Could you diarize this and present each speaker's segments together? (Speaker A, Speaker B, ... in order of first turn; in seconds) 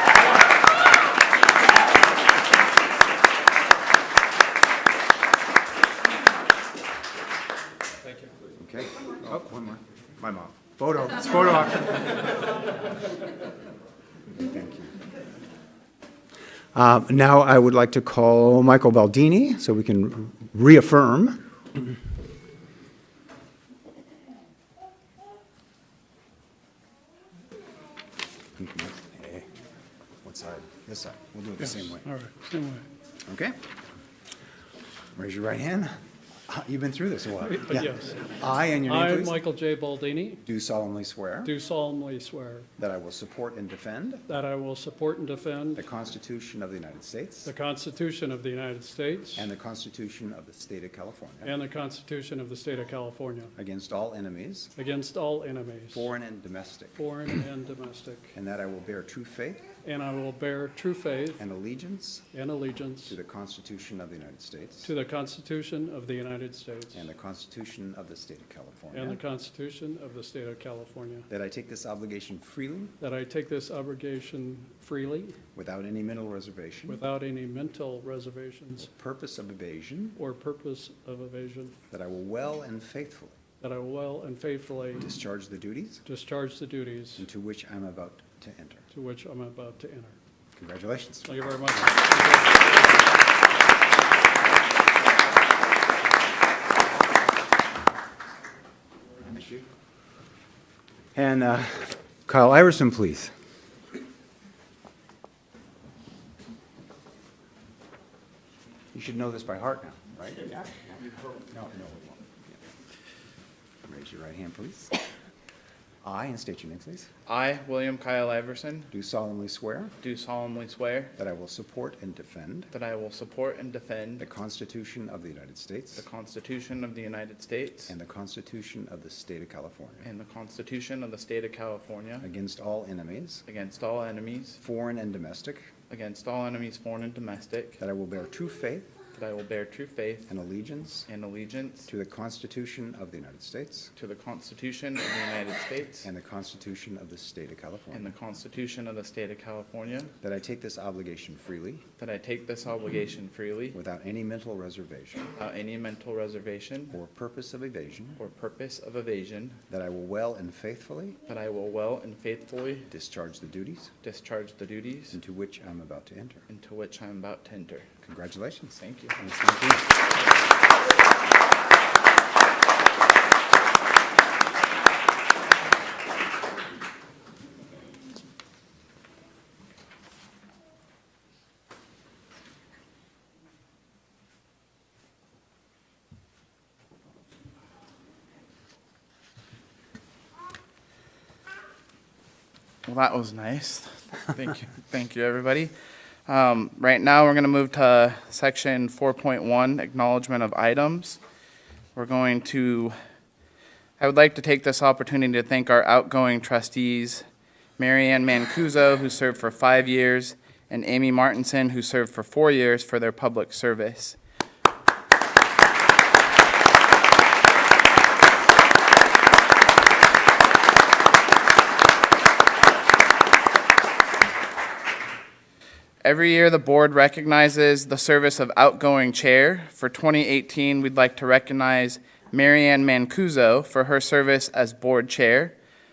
Speaker A: 8.6-12.4, 14.4-14.9, 16.7-21.4, 28.6-29.5, 30.2-32.1, 33.3-33.6, 35.1-36.0, 36.5-39.4, 40.5-41.5, 42.8-44.3, 45.8-47.5, 49.4-51.5, 53.6-54.7, 55.9-57.0, 58.3-59.7, 61.4-62.2, 63.1-64.9, 66.9-69.2, 71.3-73.0, 75.5-77.0, 78.9-80.2, 81.9-83.4, 85.0-86.0, 87.2-88.9, 90.6-92.0, 99.3-99.7, 101.2-103.3, 108.9-112.6, 113.8-115.0, 116.0-117.1, 118.9-119.9, 121.2-122.7, 124.2-126.1, 127.9-130.1, 132.2-133.4, 134.6-135.7, 137.8-138.9, 140.3-141.1, 141.9-143.9, 146.0-148.1, 150.2-151.8, 153.7-155.3, 156.9-158.2, 159.7-161.2, 162.9-163.9, 165.1-166.4, 168.0-169.9
Speaker B: 31.6-32.9, 37.4-40.4, 41.4-42.7, 44.3-45.9, 47.5-49.5, 51.4-53.5, 54.8-56.1, 57.0-58.4, 59.8-61.4, 62.3-63.2, 64.8-67.1, 68.9-71.3, 73.0-75.4, 76.9-78.9, 80.2-81.7, 83.6-85.1, 86.1-87.3, 88.9-90.2, 91.3-92.8
Speaker C: 117.3-118.9, 120.0-121.2, 122.7-124.3, 126.0-128.0, 130.0-132.3, 133.5-134.6, 135.9-137.8, 139.1-140.3, 141.1-141.9, 144.0-146.1, 147.9-150.1, 152.0-153.8, 155.4-157.0, 158.2-159.6, 161.3-162.9, 164.0-165.2, 166.5-167.9, 168.8-169.2, 192.9-195.7, 196.3-201.2, 201.9-202.9, 204.0-207.2, 207.8-214.2, 226.0-235.6